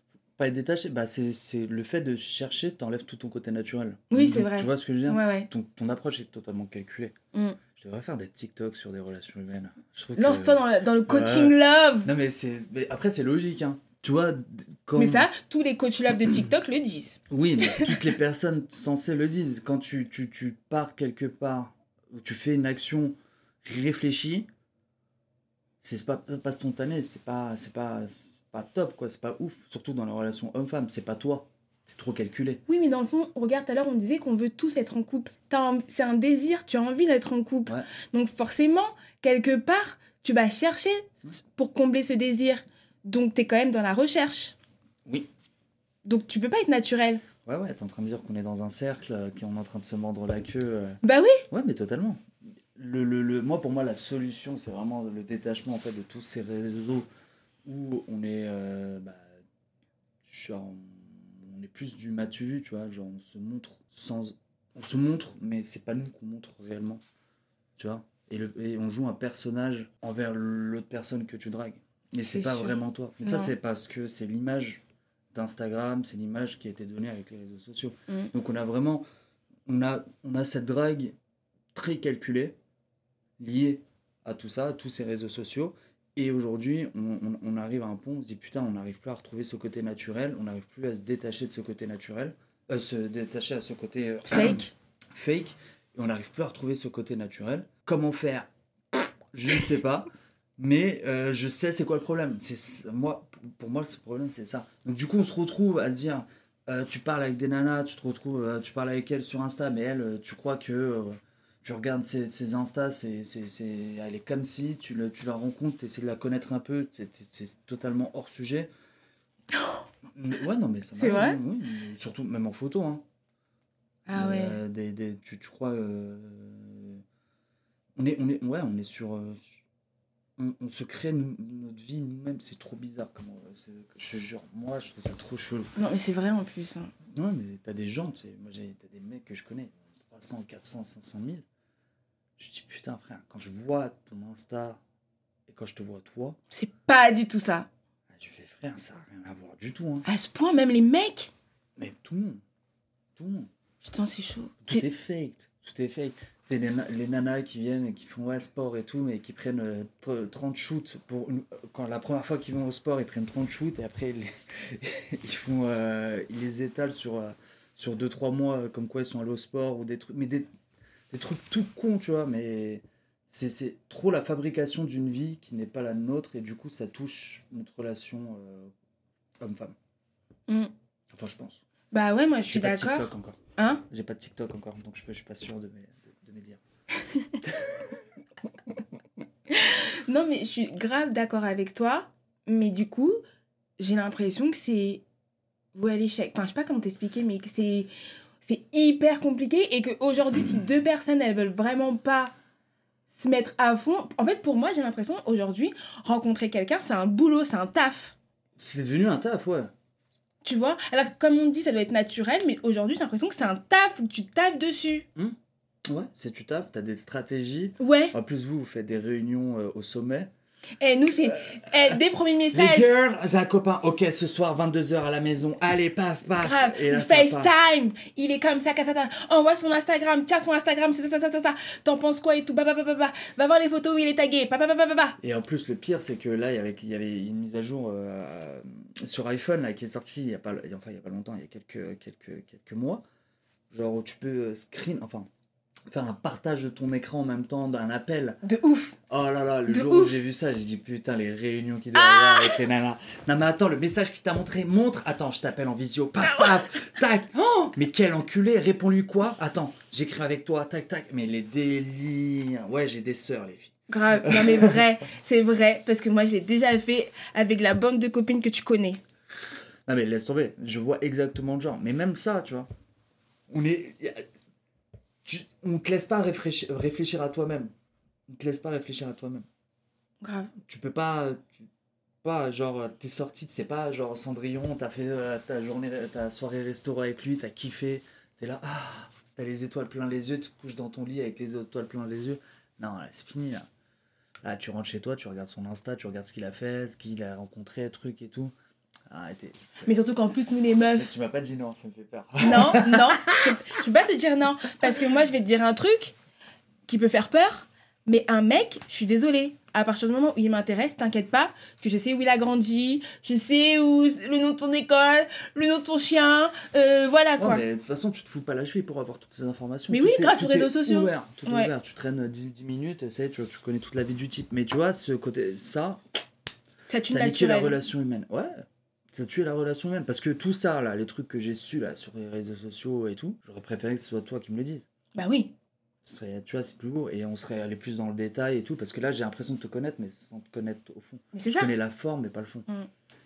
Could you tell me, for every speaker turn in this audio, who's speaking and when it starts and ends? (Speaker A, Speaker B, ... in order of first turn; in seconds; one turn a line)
Speaker A: 0.4-7.1
Speaker B: 4.1-5.5
Speaker B: 7.3-7.6
Speaker A: 7.8-15.3
Speaker B: 10.1-12.1
Speaker B: 14.9-18.0
Speaker A: 17.3-24.5
Speaker A: 25.8-32.6
Speaker B: 32.7-44.6
Speaker B: 46.0-47.2
Speaker A: 47.5-57.1
Speaker B: 51.0-51.4
Speaker A: 57.6-59.3
Speaker A: 60.2-67.0
Speaker A: 67.8-74.8
Speaker B: 72.3-73.5
Speaker A: 75.3-79.0
Speaker A: 79.7-81.2
Speaker A: 81.7-82.6
Speaker A: 83.4-118.7
Speaker B: 94.3-94.7
Speaker A: 120.1-123.0
Speaker B: 121.0-121.4
Speaker B: 124.1-124.6
Speaker A: 124.1-127.0
Speaker A: 128.0-129.6
Speaker A: 130.4-135.7
Speaker B: 135.8-136.9
Speaker A: 137.1-141.4
Speaker A: 142.4-144.8
Speaker A: 145.5-146.4
Speaker B: 146.5-147.7
Speaker A: 148.1-150.1
Speaker B: 150.1-151.3
Speaker A: 151.8-152.4
Speaker A: 153.2-153.5
Speaker B: 153.8-154.9
Speaker A: 154.6-170.5
Speaker A: 171.1-178.7
Speaker A: 179.4-179.8
Speaker A: 181.1-181.6
Speaker B: 181.9-183.8
Speaker A: 182.5-186.6
Speaker A: 187.4-188.0
Speaker B: 189.5-193.2
Speaker B: 193.8-195.0
Speaker B: 195.8-197.9
Speaker B: 198.4-202.3
Speaker B: 203.1-208.2
Speaker A: 208.6-209.7
Speaker B: 210.4-215.1
Speaker A: 215.2-220.3
Speaker B: 217.8-218.1
Speaker B: 220.8-222.9
Speaker A: 221.5-222.0
Speaker A: 222.5-227.5
Speaker B: 226.4-235.2
Speaker A: 235.2-243.0
Speaker A: 243.7-245.3
Speaker A: 245.9-248.4
Speaker B: 248.4-248.9
Speaker A: 249.1-264.8
Speaker B: 249.7-250.1
Speaker B: 251.9-252.6
Speaker B: 263.9-269.0
Speaker A: 269.9-272.7
Speaker A: 273.5-274.3
Speaker A: 275.2-277.7
Speaker A: 278.3-279.4
Speaker B: 280.2-280.5
Speaker A: 280.7-281.7
Speaker A: 282.2-293.7
Speaker A: 294.4-298.5
Speaker A: 299.1-299.9
Speaker B: 299.9-301.1
Speaker A: 300.9-303.5
Speaker B: 302.4-306.1
Speaker B: 306.9-317.6
Speaker A: 317.4-326.0
Speaker B: 319.9-321.7
Speaker B: 326.9-327.8
Speaker A: 327.1-334.9
Speaker B: 335.1-335.5
Speaker A: 336.0-342.7
Speaker B: 341.3-341.7